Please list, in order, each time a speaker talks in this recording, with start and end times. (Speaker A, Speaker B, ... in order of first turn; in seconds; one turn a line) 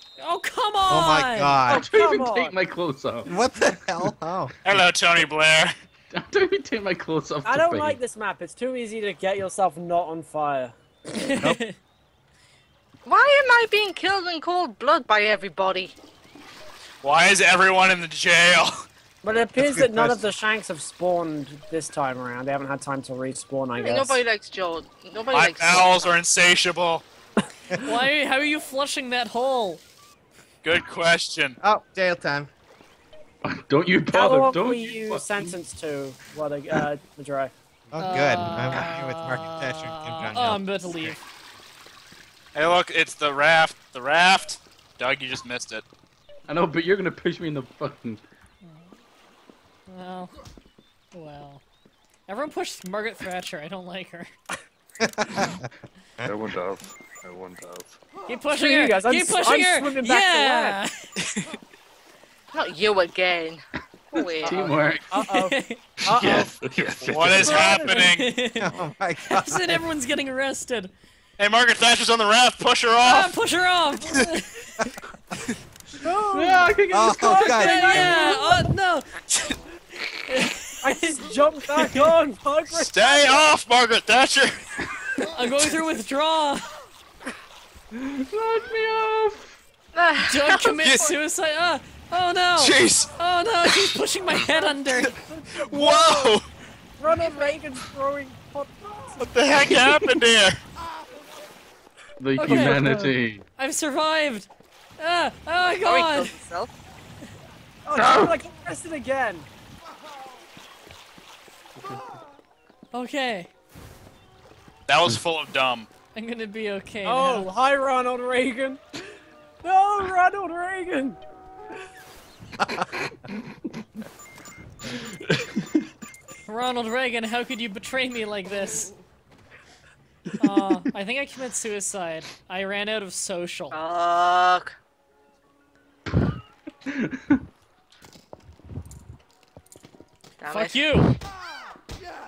Speaker A: 0.2-1.7
Speaker B: 0.9-1.8
Speaker C: 1.7-2.5
Speaker D: 1.7-3.3
Speaker B: 3.3-4.5
Speaker E: 4.6-5.7
Speaker D: 6.1-8.0
Speaker C: 7.4-10.7
Speaker A: 11.2-11.7
Speaker F: 13.1-15.9
Speaker E: 17.0-18.9
Speaker C: 19.2-24.2
Speaker B: 19.6-20.2
Speaker F: 23.8-26.1
Speaker E: 25.3-27.0
Speaker A: 27.8-29.8
Speaker E: 30.6-31.6
Speaker B: 31.6-32.5
Speaker D: 33.4-35.5
Speaker C: 34.1-37.5
Speaker B: 37.9-41.1
Speaker A: 38.0-41.2
Speaker E: 42.5-45.8
Speaker D: 46.5-48.2
Speaker A: 48.6-48.9
Speaker A: 49.9-50.3
Speaker A: 51.1-51.6
Speaker A: 52.3-54.3
Speaker B: 55.0-55.7
Speaker G: 56.2-58.0
Speaker A: 58.3-61.1
Speaker C: 58.5-60.8
Speaker F: 62.5-64.7
Speaker D: 64.2-65.1
Speaker C: 64.4-68.1
Speaker A: 65.1-65.8
Speaker G: 66.1-67.7
Speaker D: 66.2-66.5
Speaker E: 67.0-68.3
Speaker A: 67.4-70.9
Speaker B: 68.5-69.8
Speaker E: 71.4-73.3
Speaker A: 73.0-74.9
Speaker C: 76.0-78.7
Speaker D: 76.3-77.4
Speaker B: 76.9-78.2
Speaker A: 77.4-79.6
Speaker A: 80.3-82.1
Speaker C: 80.8-83.5
Speaker E: 82.7-84.7
Speaker A: 85.2-86.7
Speaker D: 87.9-89.5
Speaker F: 89.9-90.8
Speaker A: 90.2-95.2
Speaker E: 90.8-91.1
Speaker E: 92.6-93.1
Speaker E: 93.7-93.9
Speaker C: 95.1-96.4
Speaker E: 95.6-96.5
Speaker C: 97.0-100.0
Speaker E: 99.2-100.6
Speaker D: 102.2-103.4
Speaker A: 102.4-103.1
Speaker C: 102.4-103.1
Speaker A: 103.6-106.3
Speaker F: 105.8-106.7
Speaker C: 107.8-109.5
Speaker D: 108.0-108.3
Speaker A: 112.9-113.5
Speaker E: 114.9-115.9
Speaker A: 116.1-117.5
Speaker C: 117.0-119.0
Speaker C: 119.6-121.2
Speaker A: 126.5-128.9
Speaker A: 130.4-133.8
Speaker F: 133.7-134.7
Speaker D: 136.9-137.4
Speaker F: 140.4-141.0
Speaker A: 140.5-141.2